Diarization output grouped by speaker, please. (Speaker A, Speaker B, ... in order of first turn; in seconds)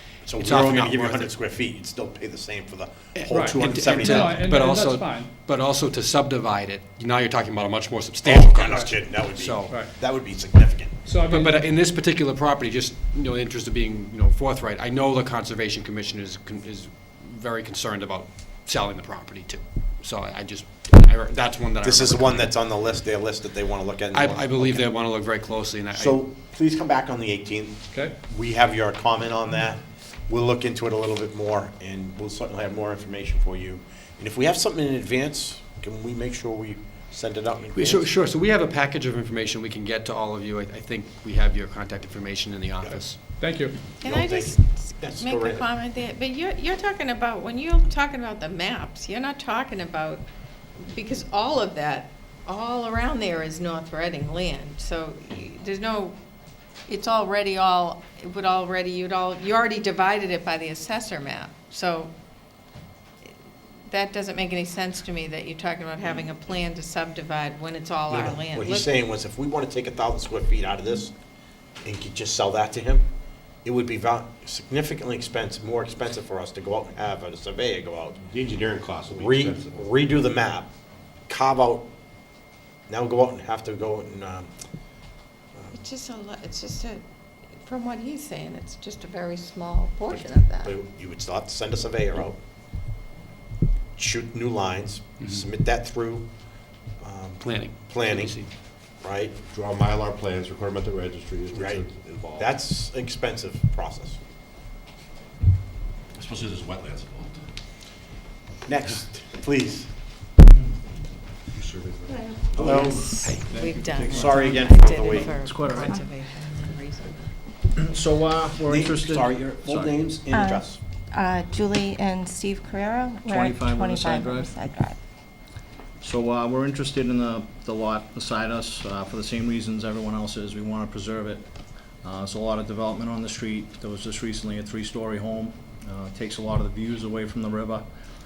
Speaker A: 0.2-4.4, 8.2-10.9, 21.8-24.9, 25.9-38.1, 44.0-45.7, 68.1-71.1, 71.8-73.0, 73.6-78.2, 79.1-80.7, 81.3-81.9, 82.9-84.5, 90.1-92.4, 94.0-96.3, 97.0-98.4, 99.0-99.3, 101.5-104.2, 108.7-109.9, 112.5-113.1, 114.0-115.3, 118.7-120.8
Speaker B: 0.3-1.3, 3.1-9.7, 11.3-22.5, 24.1-26.2, 37.7-43.2, 97.4-98.5
Speaker C: 3.3-5.3, 9.7-9.9, 11.0-11.7, 43.1-43.8
Speaker D: 44.0-50.2, 50.8-56.1, 56.9-62.1, 63.9-69.0, 85.7-87.0, 87.6-90.7, 112.6-117.3
Speaker E: 78.2-80.0, 99.5-102.6, 106.1-107.4, 111.5-114.3
Speaker F: 112.1-112.5, 120.3-125.0
Speaker G: 114.1-116.0, 117.7-120.0, 123.2-124.5, 126.0-131.4, 132.0-137.8